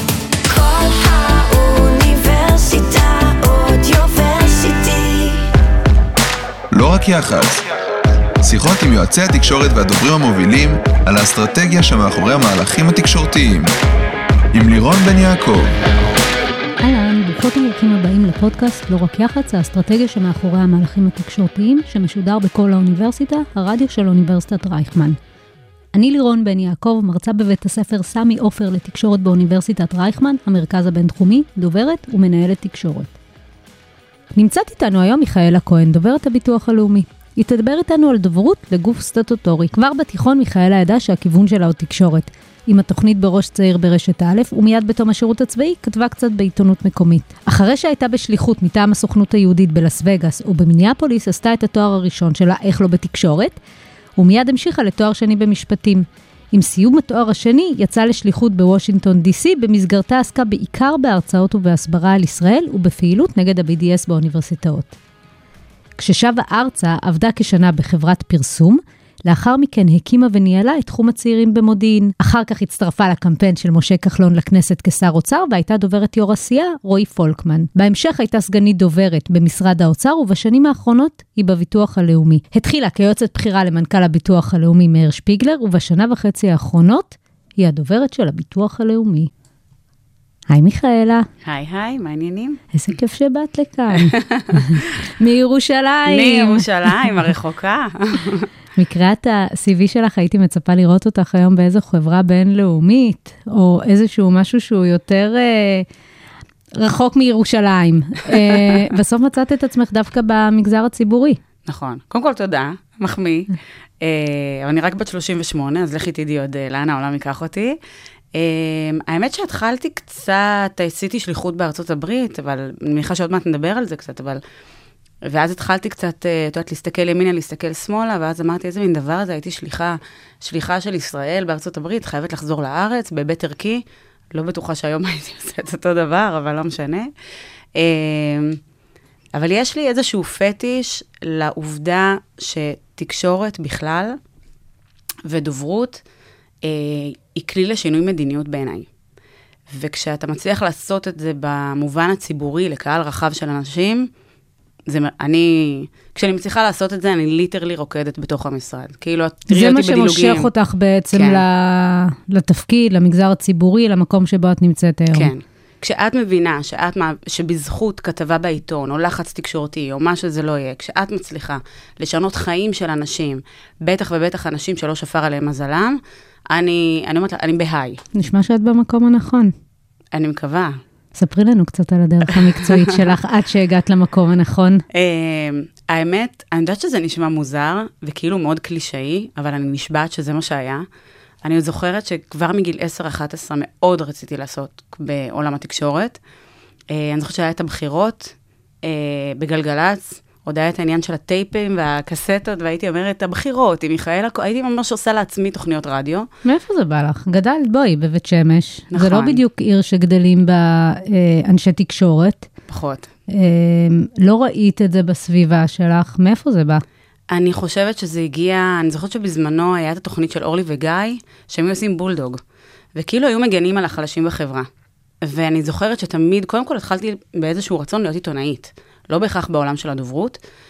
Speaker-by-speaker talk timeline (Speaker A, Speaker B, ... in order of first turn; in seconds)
Speaker A: 0.5-5.5
Speaker B: 6.7-7.6, 8.4-13.7, 14.5-15.7
Speaker C: 16.8-25.2, 25.9-33.1, 34.3-53.6, 54.2-65.0, 66.0-89.3, 90.5-91.3, 92.7-97.1, 98.8-105.8, 106.8-111.4, 159.5-165.3, 178.1-179.5, 181.1-184.8, 206.4-212.5, 213.3-216.8
Speaker D: 91.4-92.6, 94.1-94.6, 96.1-98.5, 111.7-117.8, 118.3-124.4, 125.2-137.1, 137.8-138.6, 139.3-144.2, 145.2-146.0, 146.6-148.9, 149.7-154.1, 154.9-160.5, 161.1-161.4, 165.1-178.0, 180.1-180.8, 182.6-183.0, 184.9-190.9, 191.4-196.2, 196.9-206.3, 208.9-209.4, 212.7-213.1, 217.3-222.4, 222.9-224.7, 225.2-230.4